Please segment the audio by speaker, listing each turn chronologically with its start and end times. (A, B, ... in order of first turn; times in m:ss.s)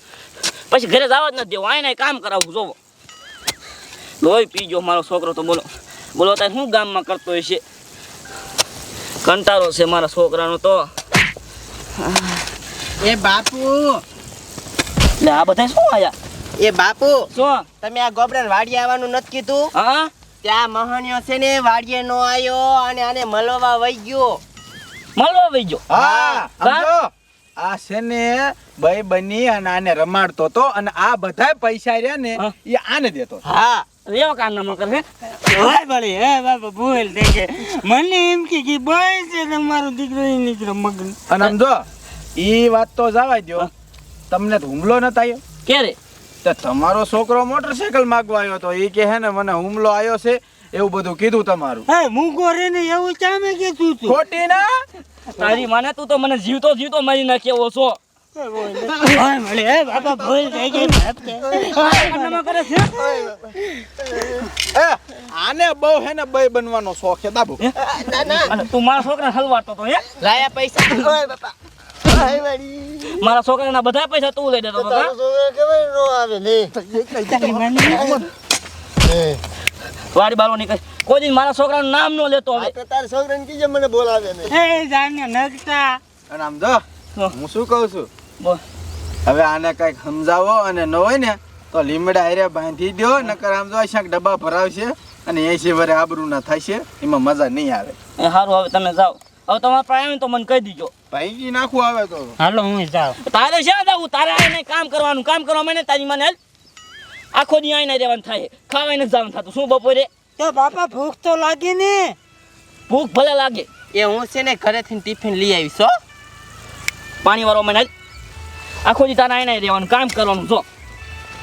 0:00.7-0:02.8 A
0:04.2-0:07.6 A
0:09.2-0:10.9 A
0:13.0-0:14.0 B
0:15.2-0:16.2 A
0:16.6-0:17.3 B
0:17.3-0:17.7 A
0:17.8-0:19.7 B
0:19.7-0:20.1 A
0:20.4-0:24.4 B
0:25.2-0:25.8 A
0:25.9-0:33.4 C
0:25.9-0:26.4 B
0:26.6-0:26.9 A
0:33.4-0:33.8 B
0:34.1-0:35.0 A
0:35.4-0:41.2 D
0:41.3-0:41.8 C
0:42.4-0:43.7 C
0:44.3-0:45.4 C
0:45.7-0:46.0 A
0:46.4-0:51.8 C
0:51.9-0:54.2 D
0:54.1-0:54.7 C
0:55.4-0:58.0 A
0:58.4-1:02.3 D
1:01.5-1:03.2 A
1:03.0-1:03.4 E
1:04.7-1:07.6 C
1:08.1-1:08.5 B
1:08.5-1:10.1 A
1:10.2-1:11.1 B
1:10.9-1:13.2 E
1:13.2-1:15.1 A
1:14.8-1:18.2 E
1:17.3-1:18.1 C
1:17.4-1:17.9 D
1:17.6-1:18.1 A
1:19.1-1:19.4 E
1:20.1-1:22.7 A
1:22.6-1:24.6 E
1:24.5-1:26.0 D
1:26.3-1:28.1 C
1:29.3-1:38.0 C
1:38.2-1:40.9 A
1:41.1-1:42.4 C
1:42.4-1:43.2 D
1:43.3-1:46.4 A
1:47.3-1:50.1 A
1:50.4-1:52.2 D
1:52.9-1:53.7 A
1:53.9-1:55.9 B
1:57.2-1:57.9 A
1:58.8-2:00.7 A